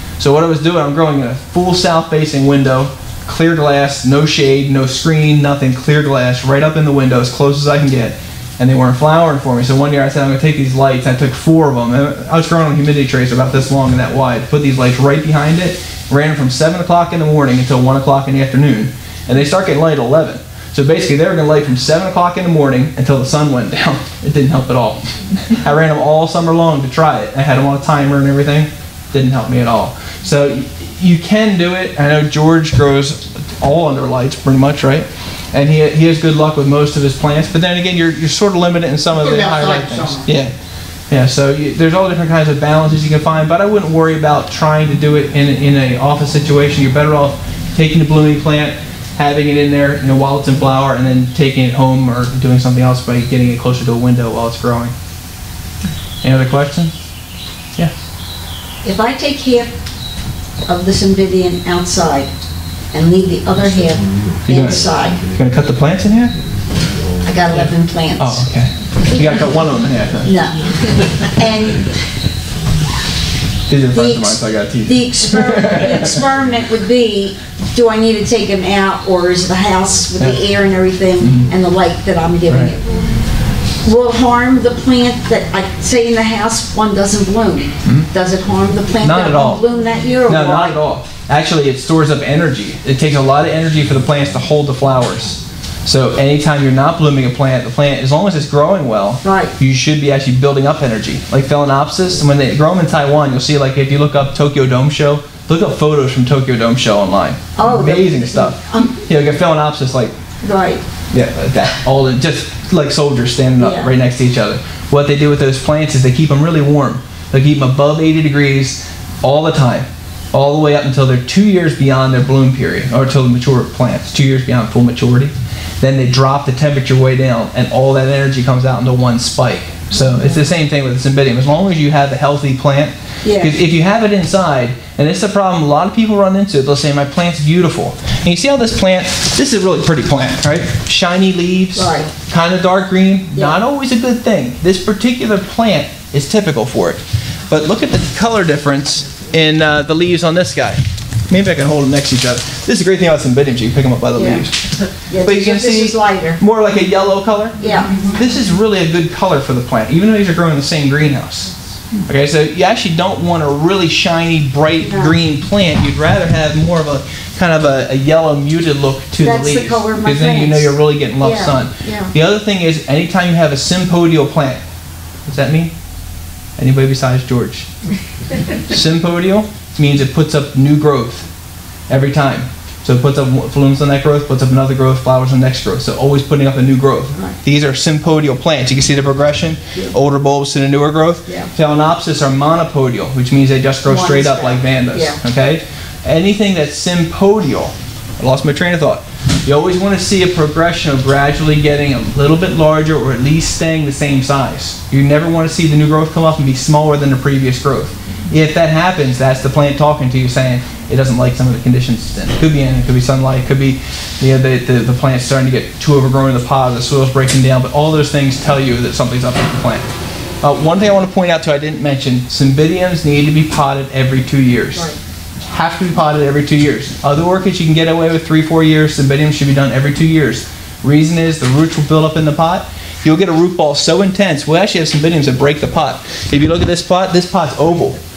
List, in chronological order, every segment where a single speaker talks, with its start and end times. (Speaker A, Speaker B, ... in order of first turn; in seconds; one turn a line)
Speaker A: 0.2-40.5
Speaker B: 39.1-40.3
Speaker A: 41.1-54.9
Speaker A: 56.2-56.9
Speaker B: 58.8-59.7
Speaker B: 60.6-62.3
Speaker B: 62.9-65.2
Speaker A: 64.4-66.3
Speaker B: 67.2-68.5
Speaker A: 68.2-70.3
Speaker B: 70.2-71.9
Speaker A: 73.7-76.2
Speaker B: 73.9-82.8
Speaker A: 80.2-80.4
Speaker A: 81.2-81.5
Speaker A: 82.5-82.7
Speaker B: 83.8-90.8
Speaker A: 87.8-88.1
Speaker A: 89.0-89.6
Speaker A: 90.2-110.2
Speaker B: 99.2-99.5
Speaker B: 107.5-109.0
Speaker B: 110.4-110.8
Speaker A: 111.1-154.6
Speaker B: 113.6-113.9
Speaker B: 133.2-133.6
Speaker B: 141.8-142.1
Speaker B: 143.3-143.6
Speaker B: 154.1-154.4
Speaker B: 155.1-156.4
Speaker A: 155.2-161.5
Speaker B: 157.6-158.0
Speaker A: 162.1-174.6
Speaker B: 164.8-165.2
Speaker B: 169.2-172.1
Speaker A: 175.2-175.7
Speaker A: 176.6-177.7
Speaker A: 178.7-181.3
Speaker A: 181.9-219.8
Speaker B: 193.8-195.2
Speaker A: 220.4-224.9
Speaker A: 225.5-238.0